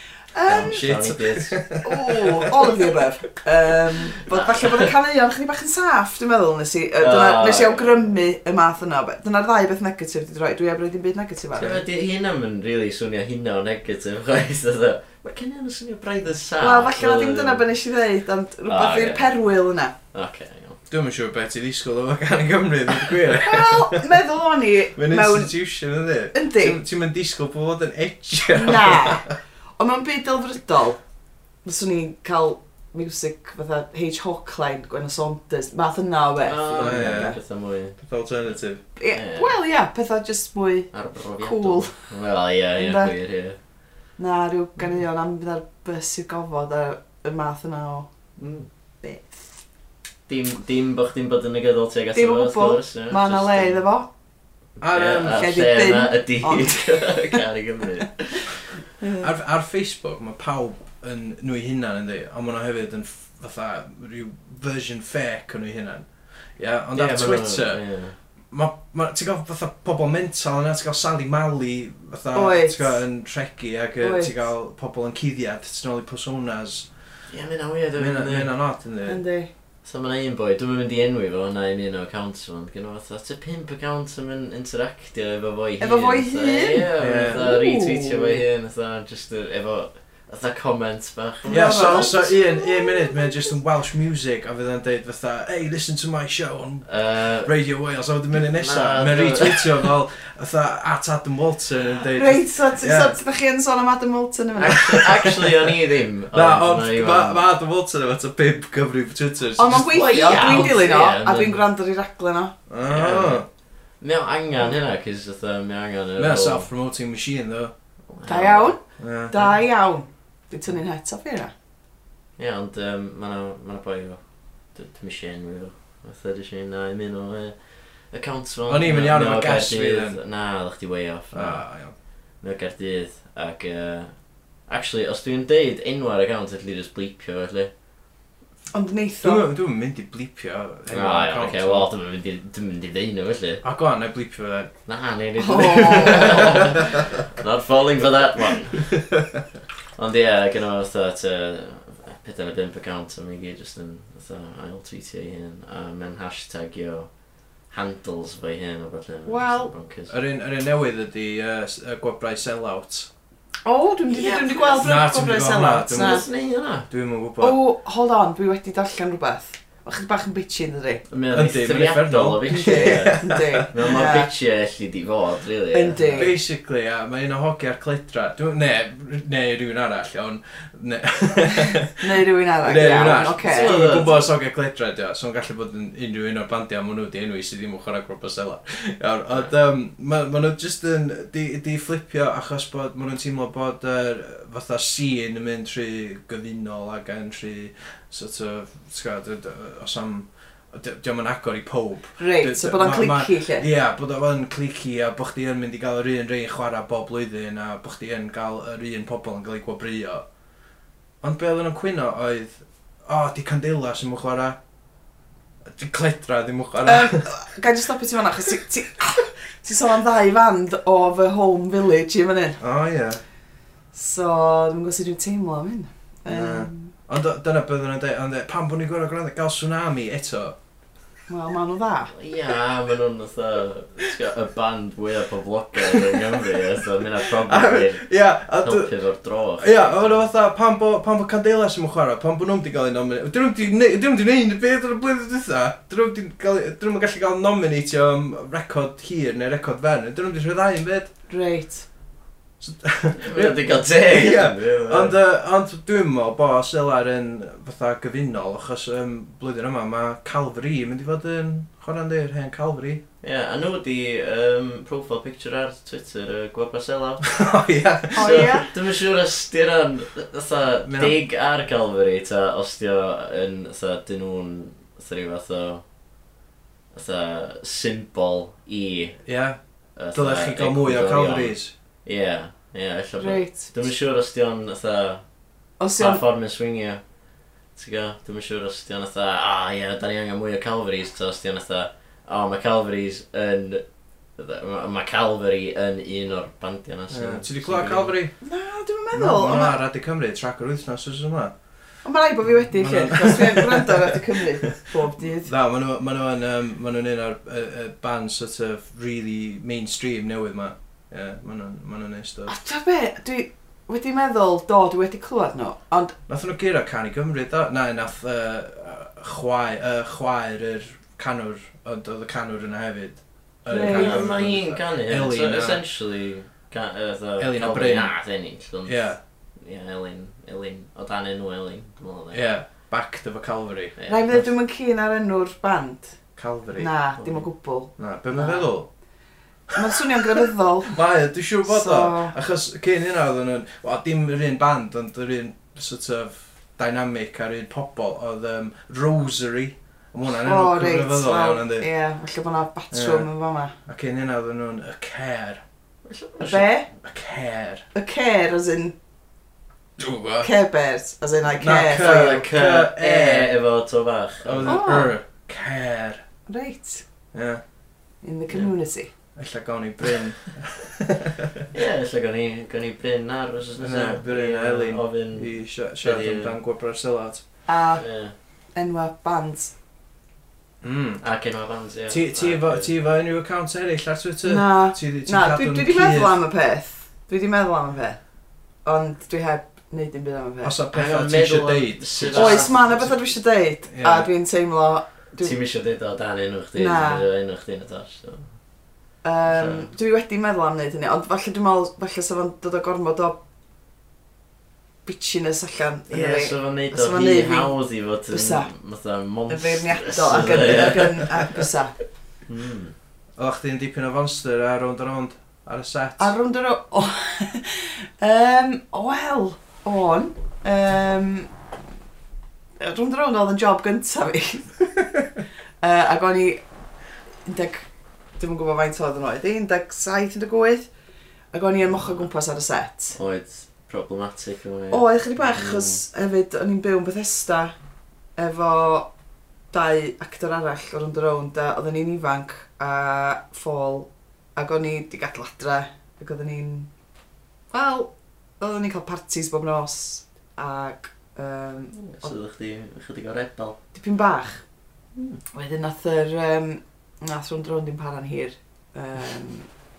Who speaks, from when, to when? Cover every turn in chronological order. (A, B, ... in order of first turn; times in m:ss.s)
0:00.3-0:01.0 A
0:00.4-0:01.7 B
0:00.6-0:02.8 C
0:01.8-0:11.8 A
0:04.3-0:04.9 B
0:07.0-0:08.1 B
0:11.6-0:17.6 B
0:16.6-0:19.9 A
0:18.7-0:19.4 B
0:20.1-0:20.8 B
0:20.9-0:24.2 C
0:23.4-0:25.5 A
0:25.0-0:29.4 C
0:26.3-0:26.8 A
0:28.5-0:29.2 A
0:29.8-0:31.0 A
0:31.6-0:37.4 A
0:36.4-0:38.5 B
0:36.8-0:37.4 C
0:38.0-0:38.8 C
0:39.0-0:42.1 A
0:39.1-0:39.6 B
0:40.9-0:43.6 B
0:42.8-0:43.1 A
0:44.2-0:48.1 A
0:48.4-0:48.7 B
0:49.0-0:49.3 A
0:50.3-0:53.8 B
0:52.1-0:54.1 A
0:54.8-0:55.4 C
0:54.9-0:58.6 B
0:55.3-0:57.4 A
0:59.0-0:59.3 A
0:59.2-1:07.8 C
1:06.9-1:08.2 B
1:08.5-1:16.9 C
1:12.3-1:13.0 A
1:14.0-1:14.3 A
1:17.3-1:18.5 B
1:18.0-1:19.2 C
1:19.0-1:19.5 A
1:19.8-1:32.2 B
1:25.8-1:28.4 A
1:27.0-1:27.4 C
1:31.4-1:33.3 A
1:31.4-1:43.2 C
1:36.8-1:37.5 B
1:38.3-1:39.9 B
1:42.1-1:45.1 A
1:44.6-1:47.4 B
1:44.7-1:45.3 C
1:46.3-1:50.6 C
1:49.6-1:52.5 A
1:49.8-1:51.6 B
1:52.7-1:53.4 C
1:52.8-1:53.4 B
1:54.0-1:56.7 B
1:56.2-1:57.7 C
1:58.1-1:58.7 B
1:58.2-2:01.5 A
1:59.0-1:59.4 C
2:02.4-2:11.8 B
2:08.7-2:10.2 C
2:11.3-2:11.9 C
2:12.4-2:14.1 B
2:14.7-2:17.7 B
2:18.7-2:19.4 A
2:19.2-2:21.9 C
2:20.9-2:23.6 B
2:23.6-2:24.7 C
2:24.9-2:28.9 B
2:25.4-2:26.6 A
2:25.8-2:27.0 C
2:30.0-2:40.1 B
2:39.2-2:39.7 A
2:40.1-2:43.1 C
2:43.6-2:46.2 A
2:44.1-2:45.0 B
2:44.8-2:46.2 C
2:46.0-2:46.9 B
2:46.9-2:47.6 C
2:47.4-2:51.0 A
2:51.1-2:56.3 B
2:51.3-2:53.6 C
2:52.5-2:54.3 A
2:55.7-2:56.3 A
2:56.1-3:02.1 C
3:01.9-3:03.8 A
3:02.6-3:30.2 C
3:03.3-3:04.2 B
3:22.2-3:23.6 A
3:31.2-3:34.6 C
3:35.7-3:37.3 C
3:36.8-3:42.6 A
3:42.6-3:43.2 C
3:43.9-3:46.9 A
3:46.3-3:50.6 C
3:51.3-3:52.1 A
3:52.1-4:00.2 B
3:55.8-3:56.2 C
3:57.2-3:58.9 C
3:59.6-4:11.1 C
4:11.3-4:11.8 A
4:12.6-4:23.0 C
4:13.2-4:15.2 B
4:23.2-4:27.3 B
4:27.4-4:28.6 C
4:28.2-4:28.7 A
4:28.2-4:35.8 B
4:30.8-4:31.2 C
4:36.9-4:39.2 B
4:39.3-4:39.6 C
4:40.0-4:45.2 B
4:40.1-4:41.7 C
4:43.2-4:43.7 A
4:45.8-4:46.2 A
4:46.0-4:47.0 B
4:47.7-4:53.8 B
4:54.4-4:58.1 B
4:57.1-4:58.3 C
4:58.4-4:59.8 A
4:59.1-5:01.5 C
5:02.0-5:05.5 A
5:02.7-5:03.9 C
5:05.4-5:12.6 C
5:12.5-5:16.1 A
5:16.3-5:25.8 C
5:23.7-5:24.4 A
5:23.8-5:32.4 B
5:27.4-5:28.1 C
5:28.8-5:29.2 C
5:32.3-5:34.0 C
5:34.0-5:34.5 B
5:34.1-5:36.2 A
5:36.4-5:36.9 C
5:36.8-5:38.7 A
5:37.2-5:37.4 B
5:38.0-5:38.9 C
5:39.8-5:40.9 A
5:40.9-5:51.9 C
5:41.7-5:42.3 A
5:50.3-5:53.7 A
5:52.9-5:53.3 C
5:53.8-5:55.6 C
5:56.0-5:56.7 B
5:56.4-5:56.9 A
5:57.0-5:57.8 C
5:57.9-5:58.9 A
6:00.0-6:00.5 C
6:00.4-6:02.4 A
6:01.6-6:03.5 C
6:01.9-6:04.8 B
6:04.4-6:06.2 C
6:04.6-6:05.1 A
6:06.5-6:07.0 A
6:07.3-6:07.6 C
6:08.2-6:09.1 A
6:09.4-6:11.5 C
6:11.7-6:16.5 B
6:13.8-6:17.4 C
6:17.7-6:18.1 A
6:18.0-6:18.3 B
6:18.7-6:19.7 A
6:20.8-6:21.2 C
6:21.2-6:22.9 B
6:22.1-6:26.4 C
6:24.4-6:28.2 A
6:28.8-6:30.7 A
6:30.6-6:33.2 C
6:30.9-6:33.1 B
6:32.3-6:35.6 A
6:33.9-6:34.3 C
6:35.4-6:38.5 B
6:36.8-6:37.2 A
6:39.2-6:43.4 A
6:39.4-6:39.9 B
6:45.0-6:47.7 A
6:46.1-6:51.6 B
6:48.3-6:48.7 A
6:49.5-6:51.9 A
6:52.5-6:52.9 B
6:53.4-6:56.3 C
6:56.2-7:01.5 A
7:02.8-7:05.0 A
7:05.8-7:06.6 A
7:07.4-7:07.9 A
7:08.4-7:10.9 A
7:11.5-7:13.2 A
7:11.9-7:12.2 B
7:13.1-7:16.0 B
7:14.9-7:17.7 A
7:18.4-7:19.1 A
7:19.7-7:26.9 A
7:27.7-7:32.3 A
7:31.9-7:33.8 B
7:33.9-7:34.6 A
7:35.5-7:39.7 A